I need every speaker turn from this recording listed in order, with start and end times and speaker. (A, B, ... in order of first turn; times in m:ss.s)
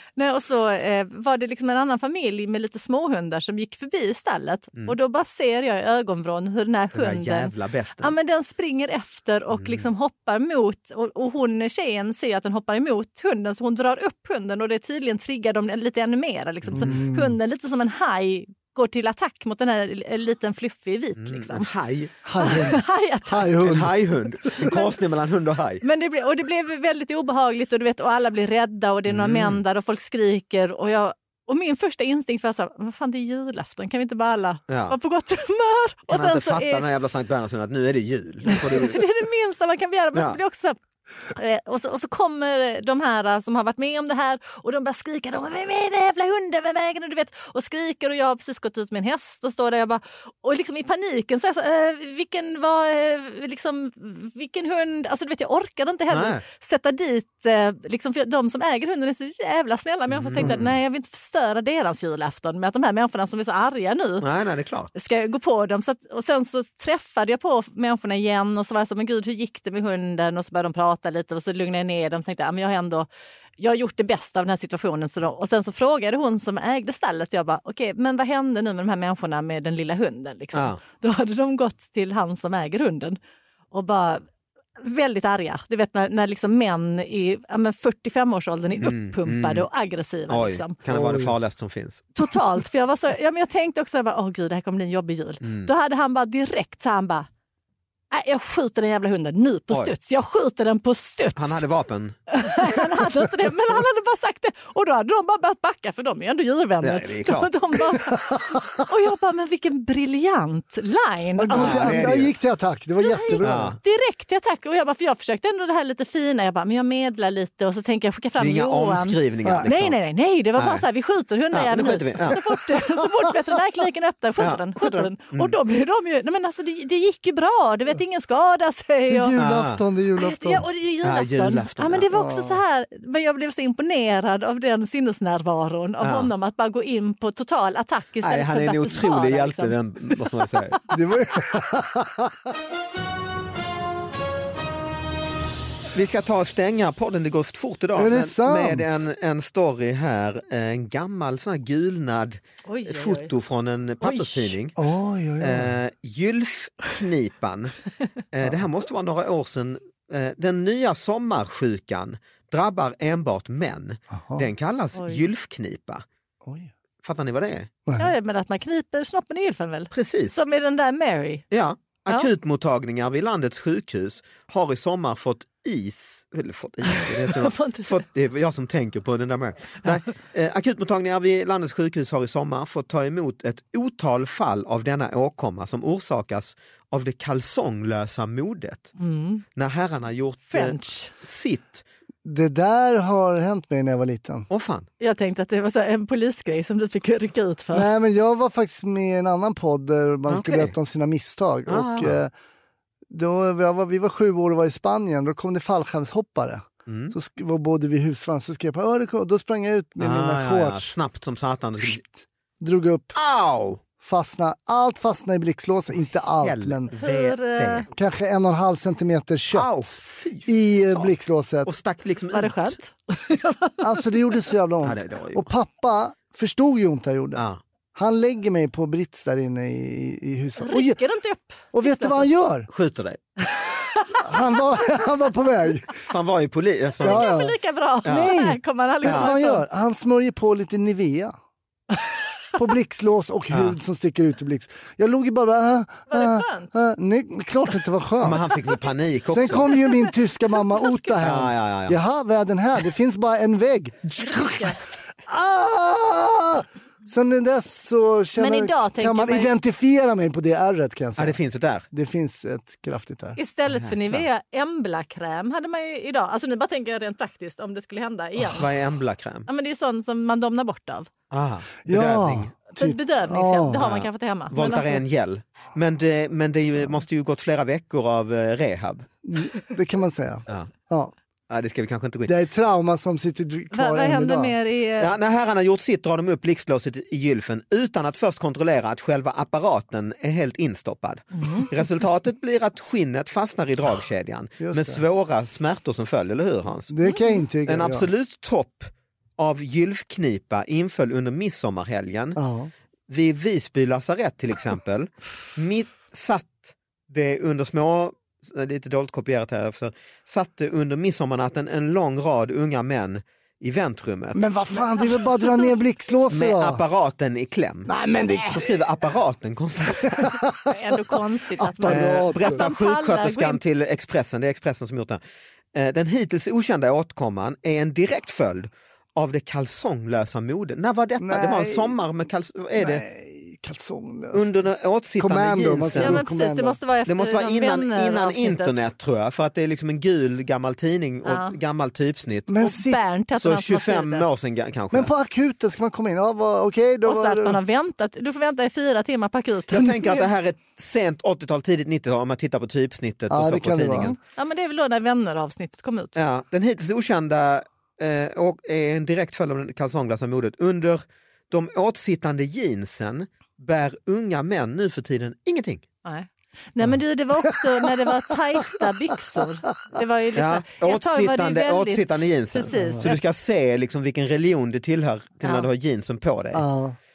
0:00.2-0:21.7 A
0:06.9-0:08.1 B
0:09.5-0:09.9 B
0:16.7-0:16.9 B
0:16.7-0:17.4 C
0:21.2-0:22.8 B
0:22.2-0:23.9 C
0:22.4-0:23.6 A
0:23.6-0:25.8 B
0:24.5-0:24.9 A
0:25.8-0:36.8 A
0:29.1-0:29.6 B
0:34.7-0:35.0 B
0:36.1-0:39.0 B
0:38.5-0:40.8 A
0:40.1-0:40.4 B
0:41.3-1:04.2 A
0:56.1-0:56.4 B
1:00.1-1:00.7 B
1:04.2-1:04.9 B
1:04.9-1:13.1 A
1:13.6-1:23.2 A
1:20.5-1:20.8 B
1:23.7-1:24.2 A
1:24.8-1:30.8 A
1:28.8-1:29.6 B
1:30.3-1:32.1 B
1:30.9-1:31.3 C
1:32.2-1:37.3 A
1:35.4-1:35.7 B
1:38.1-1:41.6 A
1:41.4-1:42.2 B
1:42.3-1:52.1 A
1:46.8-1:47.5 B
1:51.4-1:53.8 C
1:51.5-1:52.3 B
1:53.0-2:09.4 A
1:53.4-1:53.8 B
1:58.4-2:00.0 B
2:00.5-2:00.8 B
2:01.5-2:02.6 B
2:04.4-2:05.6 B
2:09.1-2:10.7 C
2:09.4-2:09.8 B
2:10.2-2:20.2 A
2:11.0-2:12.0 B
2:12.1-2:12.6 C
2:16.0-2:16.3 B
2:18.2-2:20.8 B
2:20.9-2:22.5 C
2:25.9-2:34.8 B
2:28.0-2:28.8 C
2:32.6-2:33.3 A
2:34.0-2:34.6 A
2:34.8-2:35.7 C
2:35.4-2:37.8 B
2:38.3-2:46.0 B
2:44.1-2:44.5 C
2:45.0-2:45.2 A
2:46.4-2:46.7 C
2:47.0-2:47.7 B
2:47.9-2:48.1 C
2:48.0-2:51.4 A
2:49.9-2:50.4 B
2:51.5-3:08.9 B
2:56.9-2:58.0 A
3:09.0-3:09.4 A
3:09.5-3:11.8 B
3:10.5-3:11.1 A
3:12.2-3:14.5 C
3:14.5-3:14.9 B
3:15.0-3:17.9 A
3:17.7-3:22.3 C
3:20.3-3:20.7 B
3:21.7-3:22.2 B
3:23.1-3:30.9 C
3:26.9-3:27.1 B
3:30.0-3:32.0 B
3:32.6-3:33.1 C
3:33.1-3:33.8 B
3:34.0-3:36.9 C
3:36.4-3:37.9 B
3:36.9-3:37.8 A
3:37.9-3:39.9 C
3:39.5-3:41.1 B
3:40.4-3:41.7 C
3:41.6-3:42.8 B
3:42.3-3:44.2 A
3:43.8-3:47.4 C
3:44.8-3:45.5 B
3:47.3-3:47.6 B
3:47.9-3:51.0 C
3:50.6-3:52.3 A
3:51.7-3:52.7 C
3:52.7-3:53.2 B
3:53.5-3:54.2 A
3:54.1-3:56.0 C
3:56.1-3:57.3 B
3:57.0-4:01.3 C
3:57.0-3:59.6 A
3:58.0-3:58.4 B
3:59.0-3:59.3 B
4:02.6-4:08.4 C
4:03.5-4:03.8 B
4:06.1-4:06.7 A
4:08.2-4:09.7 B
4:09.3-4:21.4 C
4:09.7-4:10.1 A
4:10.7-4:11.1 A
4:11.2-4:12.0 B
4:14.2-4:14.8 A
4:18.4-4:19.5 A
4:21.2-4:21.8 B
4:21.9-4:23.4 C
4:23.4-4:28.7 A
4:23.7-4:24.2 B
4:28.4-4:29.5 B
4:29.5-4:31.1 A
4:31.3-4:32.5 B
4:31.8-4:33.8 C
4:32.7-4:35.0 A
4:33.8-4:39.0 B
4:39.2-4:41.1 C
4:41.5-4:42.3 B
4:42.2-4:44.5 C
4:43.7-4:45.1 A
4:45.0-4:56.9 B
4:51.4-4:51.7 A
4:54.6-4:55.0 C
4:56.9-4:58.1 C
4:57.0-4:57.4 A
4:57.6-5:02.4 B
5:02.4-5:02.7 C
5:03.1-5:14.5 B
5:14.3-5:16.8 C
5:16.3-5:17.9 B
5:17.9-5:18.8 C
5:18.5-5:20.4 B
5:20.0-5:20.6 C
5:20.7-5:23.6 A
5:21.6-5:22.6 C
5:21.8-5:25.2 B
5:25.7-5:33.0 B
5:31.2-5:32.0 C
5:32.8-5:34.5 C
5:34.3-5:36.2 B
5:35.2-5:36.8 C
5:36.0-5:38.8 A
5:37.0-5:42.5 B
5:41.2-5:41.5 A
5:42.5-5:43.0 C
5:42.6-5:44.2 A
5:43.3-5:45.1 B
5:44.9-5:47.6 C
5:47.0-5:50.3 A
5:49.7-5:54.2 B
5:53.3-5:54.1 C
5:54.1-5:56.2 A
5:56.2-6:05.8 B
6:06.0-6:13.2 A
6:10.3-6:16.6 B
6:12.7-6:13.1 C
6:16.5-6:17.0 C